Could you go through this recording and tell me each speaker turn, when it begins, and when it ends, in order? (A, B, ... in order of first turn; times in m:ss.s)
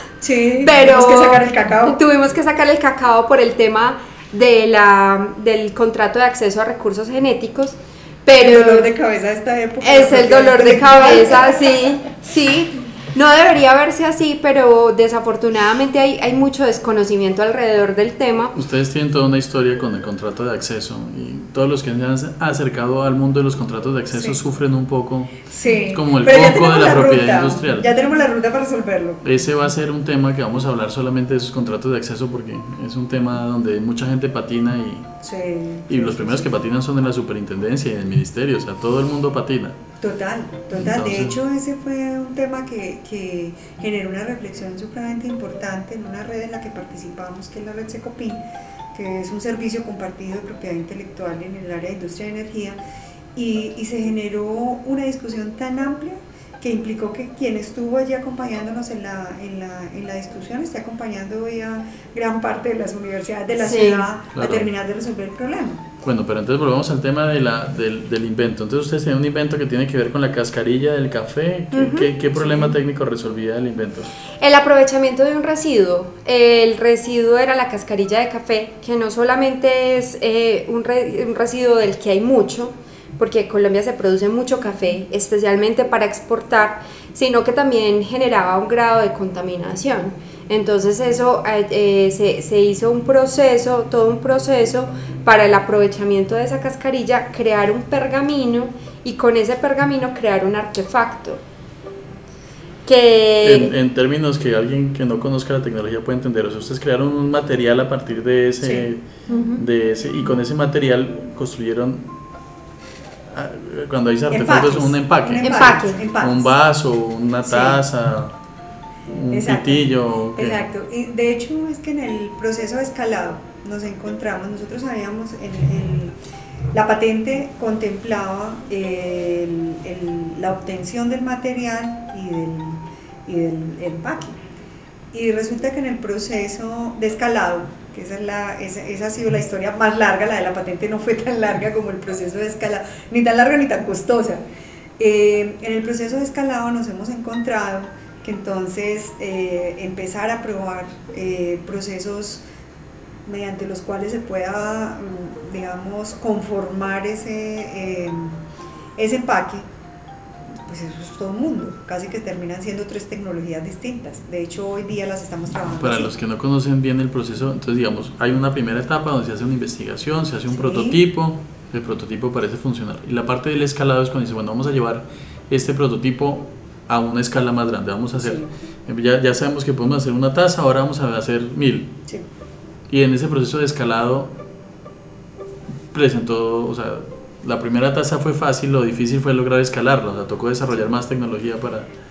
0:00.2-0:02.0 A
0:00.6-0:08.9 B
0:08.4-0:11.9 A
0:09.8-0:18.5 B
0:18.5-0:27.9 C
0:24.1-0:24.4 A
0:25.5-0:29.2 A
0:29.2-0:35.1 C
0:35.2-0:36.5 A
0:35.9-0:39.7 C
0:40.0-0:48.4 A
0:40.7-0:41.4 C
0:48.9-0:52.8 A
0:53.3-1:05.8 A
1:03.6-1:04.1 B
1:04.3-1:04.7 C
1:06.0-1:14.1 C
1:11.7-1:12.1 B
1:12.4-1:12.7 A
1:14.4-1:41.4 B
1:42.8-1:43.7 B
1:43.4-1:49.0 C
1:48.6-1:48.9 A
1:49.3-1:49.6 B
1:49.6-1:52.2 C
1:53.3-1:58.3 C
1:54.3-1:56.5 A
1:55.4-1:56.0 B
1:57.4-1:57.8 A
1:59.1-2:00.6 C
1:59.3-2:06.1 A
2:06.7-2:14.4 A
2:15.1-2:24.4 A
2:25.0-2:32.4 A
2:33.2-2:38.4 A
2:39.0-2:39.6 A
2:40.5-2:46.1 A
2:45.8-3:01.9 C
2:50.5-2:51.0 A
2:58.2-2:58.5 A
3:02.9-3:04.3 C
3:05.9-3:11.9 C